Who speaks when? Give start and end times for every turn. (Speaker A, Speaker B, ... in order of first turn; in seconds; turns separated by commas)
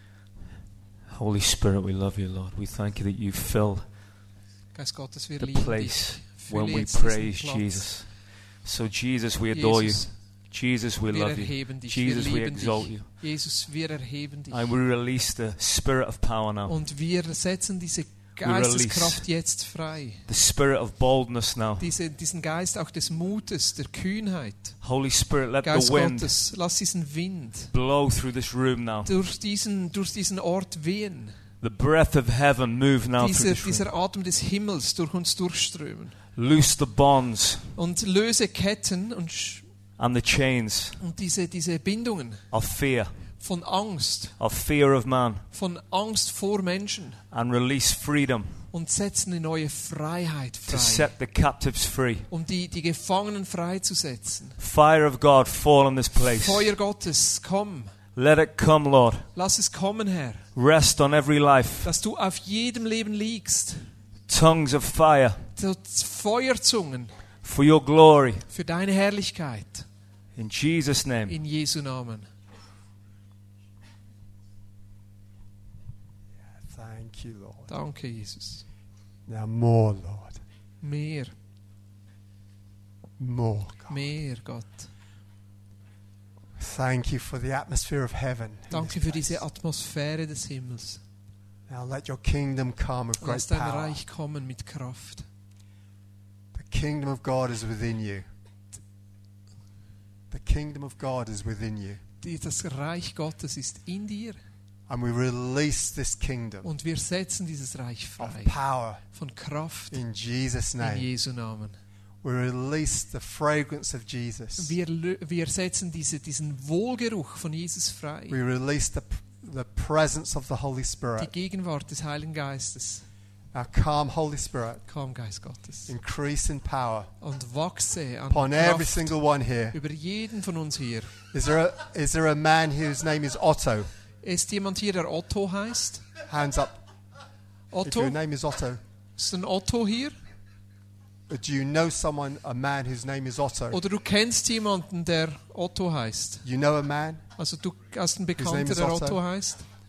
Speaker A: 1.1-3.9, Speaker B: 4.7-8.0, Speaker A: 5.4-13.1, Speaker B: 9.5-10.2, Speaker B: 11.0-14.7, Speaker A: 14.5-16.7, Speaker B: 16.6-20.2, Speaker A: 18.4-19.2, Speaker A: 20.2-21.9, Speaker B: 21.8-24.8, Speaker A: 24.8-26.4, Speaker B: 25.6-27.7, Speaker A: 27.7-29.1, Speaker B: 29.0-31.4, Speaker A: 31.6-33.9, Speaker B: 33.2-36.2, Speaker A: 36.3-37.8, Speaker B: 37.7-39.7, Speaker A: 40.0-41.0, Speaker B: 41.0-42.5, Speaker A: 42.5-43.1, Speaker B: 43.4-44.4, Speaker A: 44.4-45.5, Speaker B: 45.5-47.2, Speaker A: 47.3-48.6, Speaker B: 48.7-51.1, Speaker A: 50.7-52.3, Speaker B: 52.3-54.6, Speaker A: 54.6-56.7, Speaker B: 56.1-58.0, Speaker A: 58.1-59.3, Speaker B: 59.3-60.5, Speaker A: 60.5-61.9, Speaker B: 61.8-63.9, Speaker A: 64.3-65.5, Speaker B: 65.5-67.1, Speaker A: 67.4-68.5, Speaker B: 68.5-69.8, Speaker A: 70.3-71.4, Speaker B: 71.3-72.3, Speaker C: 76.4-77.7, Speaker B: 77.7-78.7, Speaker C: 79.3-80.4, Speaker B: 80.8-81.3, Speaker C: 83.2-84.0, Speaker B: 83.9-84.9, Speaker C: 86.6-89.4, Speaker B: 88.7-91.0, Speaker C: 91.7-94.0, Speaker B: 93.2-95.3, Speaker C: 96.5-98.3, Speaker C: 100.3-102.0, Speaker B: 102.2-104.4, Speaker C: 104.9-106.7, Speaker B: 106.6-110.0, Speaker C: 108.2-109.0, Speaker C: 109.9-111.1, Speaker B: 110.8-111.8, Speaker C: 112.2-114.8, Speaker B: 114.6-118.4, Speaker C: 118.3-121.3, Speaker B: 121.2-123.1, Speaker C: 123.5-124.8, Speaker B: 124.8-125.9, Speaker C: 125.8-127.1, Speaker B: 127.2-131.1, Speaker C: 128.3-129.8, Speaker C: 131.3-133.9, Speaker B: 134.2-136.0, Speaker C: 136.2-136.8, Speaker B: 137.7-138.2, Speaker C: 137.8-138.8, Speaker B: 139.2-140.2, Speaker C: 141.3-143.8, Speaker B: 143.7-146.4, Speaker C: 146.4-147.2, Speaker B: 147.4-149.6, Speaker C: 148.4-149.2